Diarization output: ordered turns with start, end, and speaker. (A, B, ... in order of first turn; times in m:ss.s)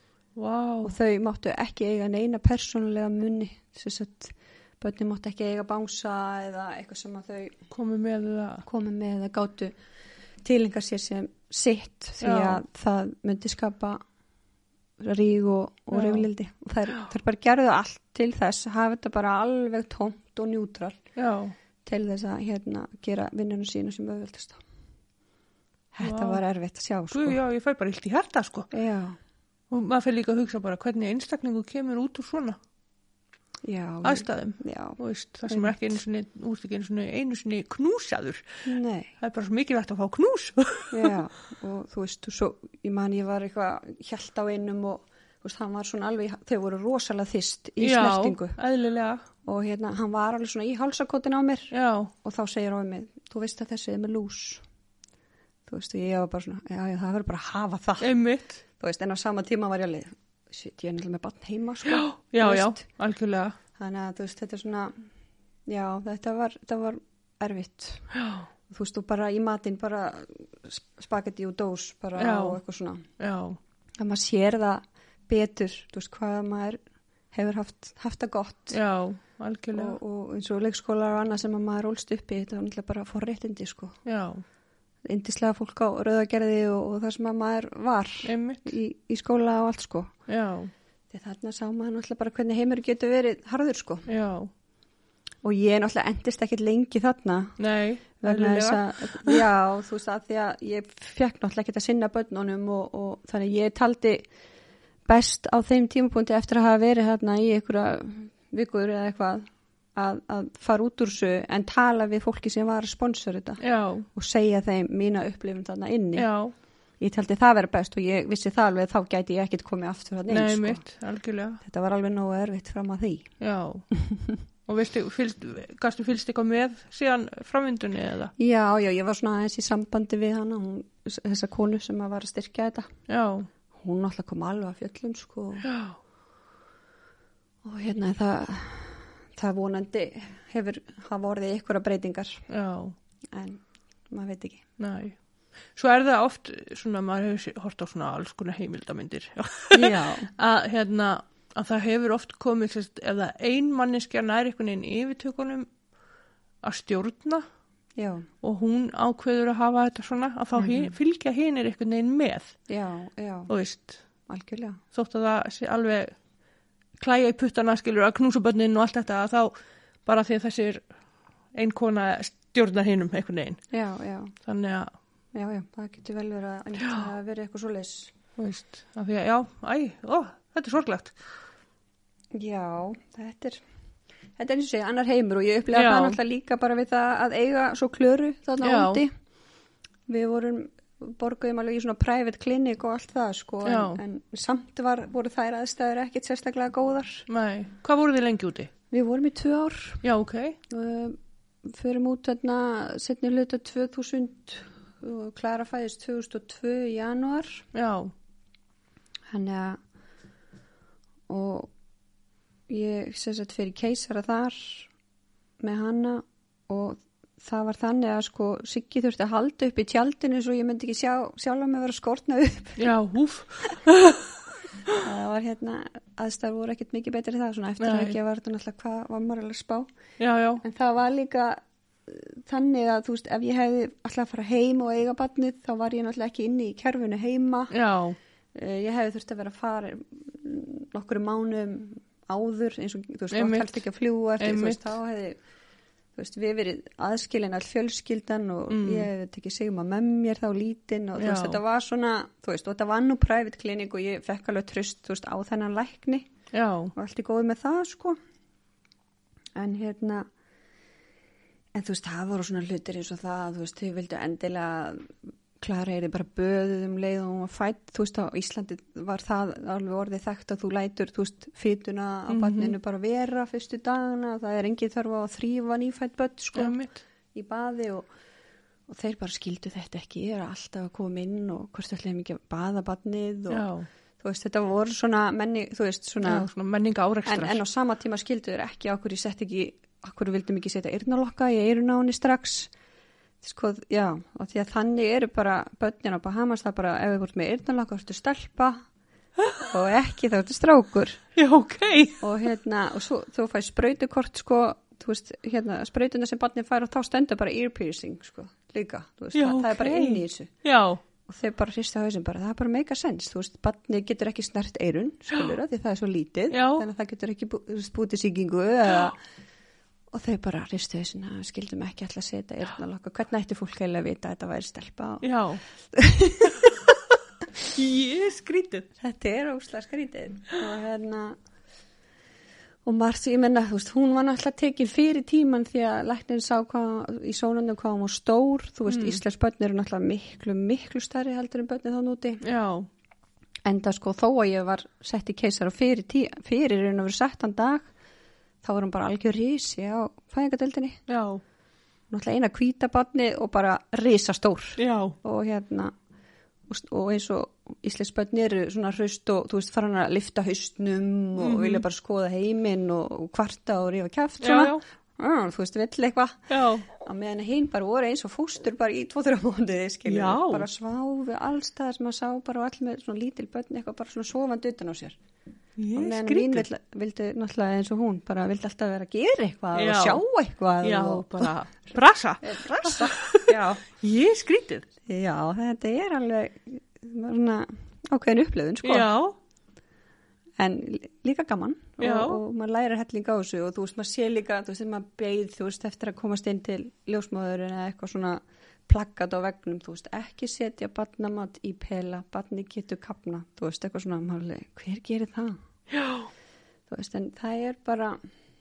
0:00.4-0:00.9 A
0:00.8-0:07.6 B
0:07.7-0:08.6 A
0:08.6-0:09.7 B
0:10.4-0:14.0 B
0:12.2-0:12.6 A
0:15.0-0:21.0 B
0:15.9-0:16.3 A
0:21.2-0:21.5 A
0:21.8-0:24.6 B
0:25.9-0:27.4 B
0:26.0-0:26.4 A
0:27.1-0:28.7 A
0:28.7-0:29.2 B
0:29.7-0:32.6 A
0:33.6-0:35.8 B
0:34.0-0:38.4 A
0:38.6-0:39.1 B
0:39.2-0:41.1 A
0:40.9-0:48.6 B
0:47.8-0:49.2 A
0:49.4-0:54.6 B
0:51.7-0:52.1 A
0:55.7-0:58.1 B
0:58.0-0:58.6 A
0:58.8-1:02.8 B
1:01.9-1:03.6 A
1:03.8-1:04.9 B
1:05.7-1:08.1 B
1:08.1-1:08.5 A
1:08.7-1:13.0 B
1:12.2-1:12.6 A
1:13.2-1:13.6 A
1:14.0-1:16.8 B
1:17.3-1:18.8 B
1:18.7-1:20.0 A
1:19.7-1:24.0 B
1:24.0-1:24.4 A
1:25.0-1:30.1 B
1:28.2-1:28.7 A
1:30.3-1:30.7 A
1:31.1-1:34.1 B
1:34.1-1:34.5 A
1:35.4-1:37.6 B
1:37.6-1:39.4 A
1:38.2-1:44.2 B
1:45.1-1:53.6 B
1:53.6-1:54.1 A
1:54.1-1:56.3 B
1:56.2-1:56.5 A
1:57.0-2:00.8 B
2:00.3-2:01.6 A
2:01.6-2:03.3 B
2:03.4-2:03.8 A
2:03.9-2:04.2 B
2:04.6-2:08.3 A
2:08.4-2:12.9 B
2:13.1-2:13.5 A
2:13.7-2:15.7 B
2:15.6-2:16.0 A
2:17.6-2:22.4 B
2:22.5-2:23.0 A
2:23.3-2:24.6 B
2:24.8-2:25.2 A
2:25.7-2:35.7 A
2:29.7-2:30.3 B
2:36.6-2:37.4 A
2:38.0-2:38.3 B
2:38.4-2:42.6 A
2:40.6-2:40.9 B
2:42.7-2:43.5 B
2:43.5-2:44.0 A
2:44.3-2:44.8 B
2:44.9-2:46.1 A
2:47.0-2:49.5 A
2:50.0-2:50.8 A
2:51.5-2:53.6 A
2:53.7-2:54.3 B
2:54.4-2:54.9 A
2:55.3-2:58.1 B
2:56.8-2:57.1 A
2:58.4-3:01.2 A
3:02.3-3:03.6 B
3:04.4-3:09.1 B
3:05.7-3:06.2 A
3:08.6-3:09.0 A
3:10.1-3:17.2 B
3:13.6-3:14.0 A
3:17.3-3:18.7 A
3:18.9-3:20.0 B
3:20.0-3:20.6 A
3:20.7-3:27.6 B
3:27.7-3:28.1 A
3:29.3-3:29.8 B
3:31.3-3:31.7 B
3:32.7-3:34.9 B
3:35.6-3:42.8 B
3:42.8-3:44.2 A
3:44.9-3:49.9 B
3:47.8-3:48.2 A
3:50.2-3:50.6 A
3:50.6-3:57.7 B
3:57.7-3:58.2 A
3:58.5-4:05.4 B
4:03.3-4:03.8 A
4:04.4-4:04.9 A
4:06.2-4:16.3 B
4:08.7-4:09.1 A
4:11.2-4:11.6 A
4:16.5-4:16.9 A
4:16.9-4:18.2 B
4:19.6-4:20.2 B
4:21.7-4:36.8 B
4:32.3-4:32.8 A
4:36.5-4:37.0 A
4:37.3-4:38.1 B
4:38.9-4:43.7 B
4:43.5-4:43.9 A
4:44.2-4:46.4 B
4:46.2-4:47.6 A
4:47.2-4:52.7 B
4:53.4-4:58.8 B
4:59.6-5:01.2 B
5:01.4-5:02.2 A
5:02.2-5:10.5 B
5:09.3-5:11.0 A
5:11.3-5:19.2 B
5:16.5-5:16.8 A
5:20.1-5:26.8 B
5:25.2-5:25.6 A
5:27.7-5:28.9 A
5:29.0-5:31.3 B
5:32.8-5:42.4 B
5:38.9-5:39.2 A
5:42.4-5:42.9 A
5:43.6-5:47.9 B
5:48.6-5:51.0 B
5:51.1-5:51.4 A
5:52.1-5:55.9 B
5:54.8-5:55.2 A
5:56.7-6:15.2 B
6:01.4-6:01.8 A
6:04.4-6:04.8 A
6:06.5-6:06.8 A
6:10.0-6:10.7 A
6:15.8-6:16.6 A
6:15.9-6:21.5 B
6:19.7-6:20.2 A
6:20.8-6:24.8 A
6:22.4-6:23.8 B
6:25.0-6:29.1 B
6:28.8-6:29.4 A
6:30.6-6:45.6 B
6:32.0-6:32.4 A
6:45.9-6:46.3 A
6:46.9-6:48.2 B